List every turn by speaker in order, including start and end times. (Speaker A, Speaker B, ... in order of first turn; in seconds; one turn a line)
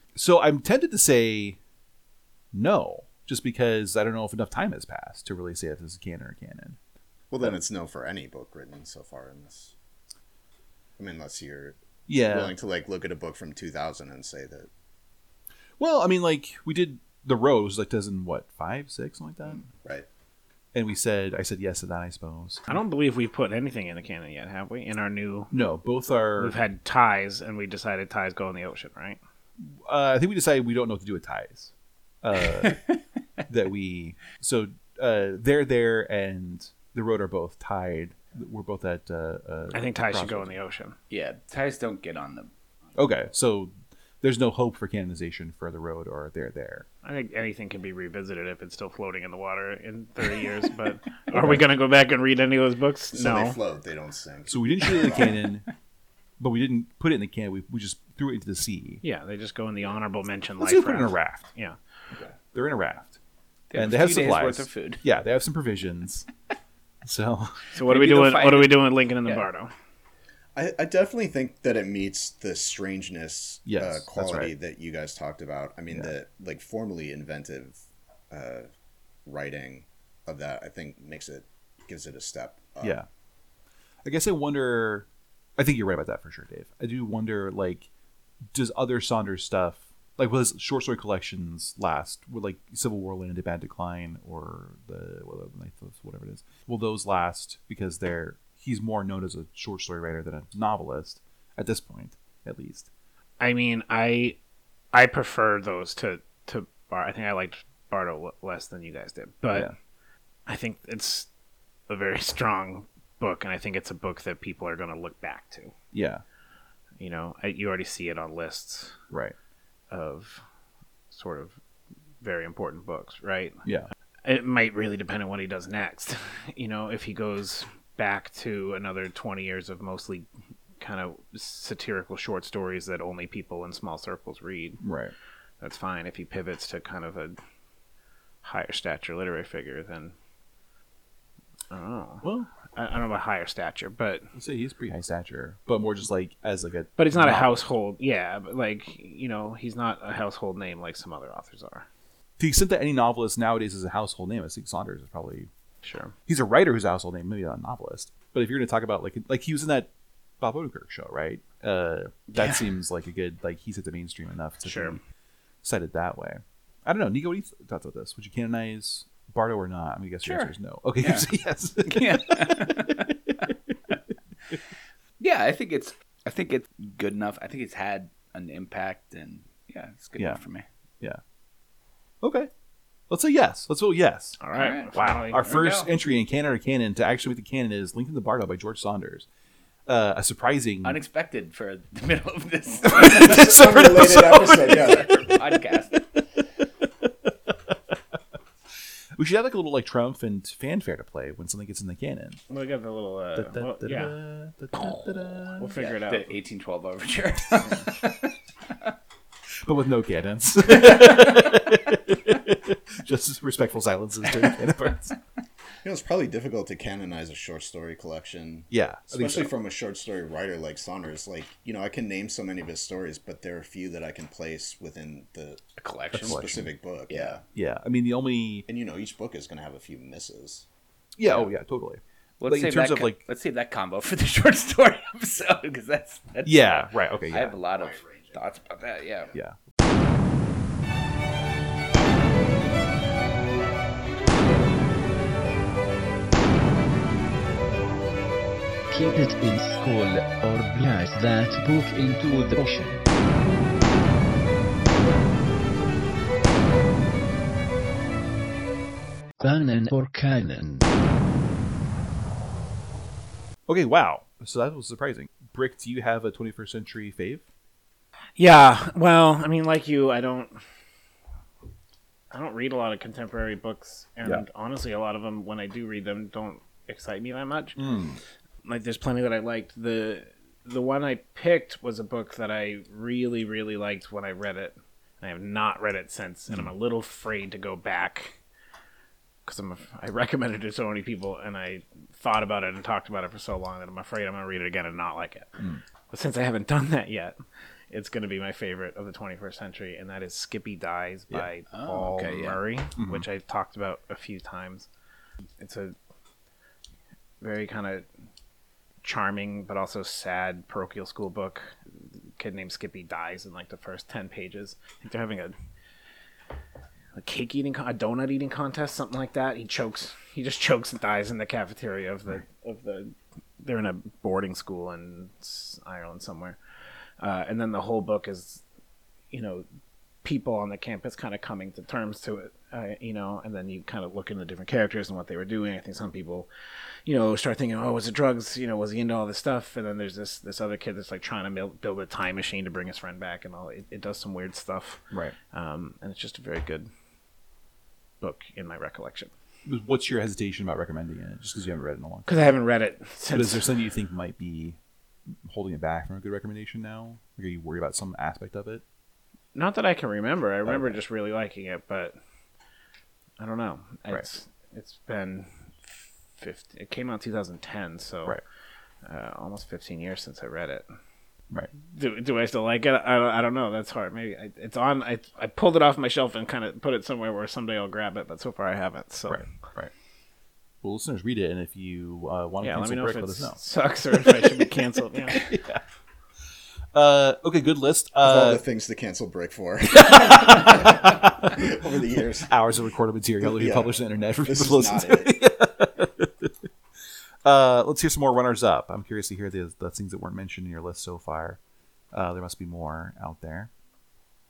Speaker A: 0.1-1.6
Speaker A: 2.5-6.8
Speaker B: 7.3-9.7
Speaker B: 11.0-14.7
Speaker A: 12.1-12.5
Speaker A: 15.8-19.6
Speaker B: 19.4-20.1
Speaker A: 20.7-22.8
Speaker C: 22.7-25.5
Speaker A: 25.5-26.6
Speaker C: 26.4-29.2
Speaker A: 29.6-32.8
Speaker A: 33.5-40.6
Speaker C: 39.7-41.0
Speaker D: 41.1-42.5
Speaker A: 42.9-46.9
Speaker C: 47.0-53.6
Speaker A: 51.3-51.6
Speaker B: 53.1-55.4
Speaker A: 54.5-55.7
Speaker A: 56.4-59.0
Speaker C: 59.0-61.8
Speaker A: 60.6-61.5
Speaker A: 62.4-63.2
Speaker D: 63.7-65.0
Speaker A: 63.7-66.3
Speaker A: 67.0-67.7
Speaker D: 67.7-69.5
Speaker C: 67.7-69.7
Speaker B: 70.5-78.7
Speaker A: 73.7-74.5
Speaker B: 79.2-83.0
Speaker A: 82.8-83.1
Speaker A: 84.0-85.1
Speaker A: 85.6-87.9
Speaker A: 88.5-102.9
Speaker C: 103.4-104.4
Speaker C: 104.9-109.7
Speaker C: 110.5-111.3
Speaker C: 111.9-115.7
Speaker A: 115.9-116.2
Speaker C: 117.0-119.0
Speaker A: 119.1-119.3
Speaker C: 119.9-120.4
Speaker C: 121.1-121.6
Speaker C: 122.2-123.6
Speaker A: 123.6-123.9
Speaker C: 124.2-130.3
Speaker C: 130.8-134.8
Speaker A: 134.8-135.1
Speaker C: 135.6-137.3
Speaker C: 138.4-140.1
Speaker C: 141.7-144.3
Speaker A: 142.2-142.5
Speaker A: 144.3-147.6
Speaker C: 147.0-151.9
Speaker A: 152.4-155.5
Speaker C: 155.8-156.1
Speaker A: 156.3-159.9
Speaker A: 160.4-165.0
Speaker C: 164.6-165.0
Speaker A: 165.6-173.5
Speaker D: 170.2-171.3
Speaker D: 171.9-174.0
Speaker D: 175.2-180.6
Speaker A: 182.2-182.5
Speaker A: 183.1-184.4
Speaker C: 184.4-185.6
Speaker D: 184.5-185.9
Speaker A: 184.9-189.3
Speaker A: 189.9-191.0
Speaker D: 190.8-193.6
Speaker A: 192.9-196.0
Speaker B: 193.1-195.1
Speaker D: 194.4-196.0
Speaker A: 196.8-197.7
Speaker A: 199.2-202.4
Speaker C: 202.5-204.1
Speaker A: 203.3-205.7
Speaker C: 205.5-206.3
Speaker D: 205.7-208.3
Speaker A: 209.6-215.2
Speaker B: 215.8-225.6
Speaker A: 218.7-219.5
Speaker D: 225.8-226.4
Speaker A: 226.1-226.7
Speaker B: 226.2-227.4
Speaker D: 227.1-227.4
Speaker A: 227.5-228.7
Speaker B: 228.7-230.7
Speaker A: 231.2-233.2
Speaker D: 232.4-239.3
Speaker A: 236.4-237.6
Speaker E: 248.9-253.0
Speaker E: 259.4-260.6
Speaker A: 263.7-267.4
Speaker C: 268.4-270.6
Speaker C: 272.3-277.8
Speaker A: 277.8-278.2
Speaker C: 278.6-288.4
Speaker C: 289.4-295.5
Speaker C: 296.1-297.4
Speaker C: 297.9-304.9
Speaker D: 301.7-302.6
Speaker A: 303.0-303.2
Speaker C: 305.6-305.9
Speaker C: 307.4-308.1
Speaker C: 309.0-315.5
Speaker C: 317.1-326.6
Speaker C: 327.2-328.6
Speaker C: 329.3-329.6
Speaker C: 330.2-336.5
Speaker C: 337.1-346.9
Speaker A: 345.1-345.4
Speaker C: 348.2-349.3
Speaker A: 349.6-352.5
Speaker C: 352.2-353.7
Speaker A: 353.3-354.8
Speaker A: 355.5-358.8
Speaker C: 359.5-362.1
Speaker A: 360.6-361.0
Speaker C: 363.4-368.4
Speaker C: 369.0-370.9
Speaker C: 371.9-379.4
Speaker A: 379.3-379.9
Speaker A: 380.8-384.7
Speaker C: 382.6-385.4
Speaker A: 385.2-385.8
Speaker A: 386.9-388.6
Speaker B: 388.2-392.5
Speaker A: 390.0-391.5
Speaker A: 392.4-396.5
Speaker B: 393.4-395.3
Speaker A: 397.4-401.6
Speaker A: 402.1-403.7